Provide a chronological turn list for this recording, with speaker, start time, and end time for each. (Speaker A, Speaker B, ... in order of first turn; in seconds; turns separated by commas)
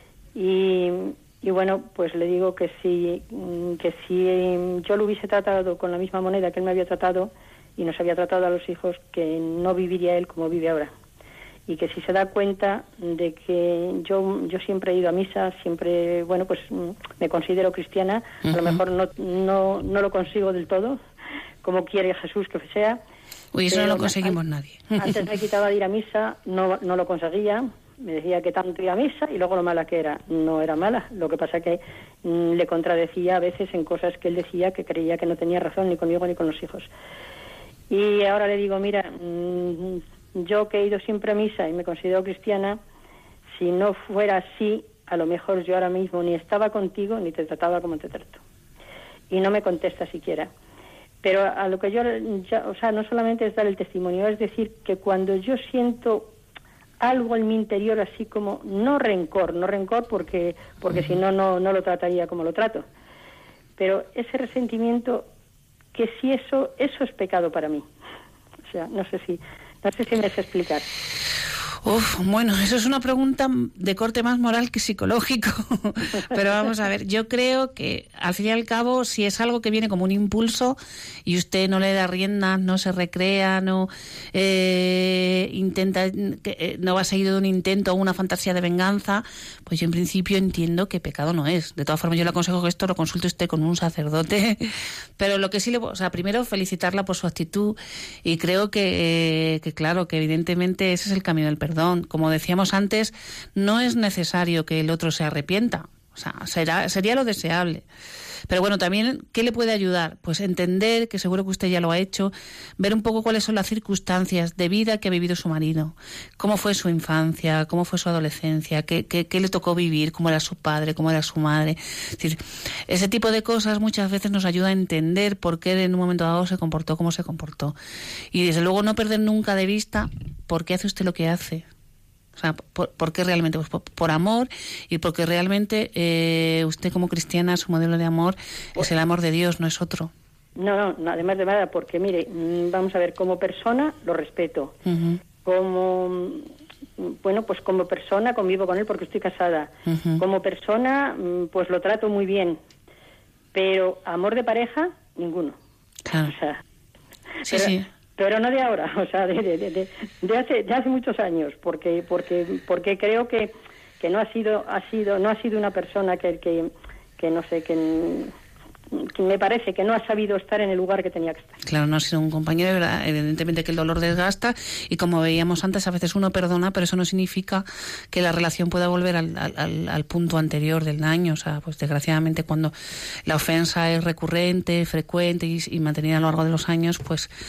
Speaker A: 0.3-10.9, Speaker A: 11.7-21.0, Speaker B: 18.4-18.8, Speaker A: 21.6-23.0, Speaker B: 23.5-25.1, Speaker A: 23.7-24.4, Speaker A: 25.0-36.9, Speaker A: 37.9-42.8, Speaker A: 43.6-48.4, Speaker A: 49.3-50.5, Speaker A: 51.2-56.3, Speaker A: 57.0-62.9, Speaker A: 63.8-65.3, Speaker A: 65.9-67.9, Speaker A: 68.7-70.9, Speaker B: 71.8-107.9, Speaker B: 108.5-127.8, Speaker B: 128.3-131.7, Speaker B: 132.4-140.1, Speaker A: 140.6-144.8, Speaker B: 144.9-145.2, Speaker A: 145.4-152.6, Speaker B: 149.9-150.2, Speaker A: 153.5-155.6, Speaker B: 156.1-156.3, Speaker A: 156.3-156.6, Speaker B: 157.4-157.9, Speaker A: 157.5-168.3, Speaker A: 168.9-171.5, Speaker B: 171.6-182.7, Speaker B: 183.3-187.3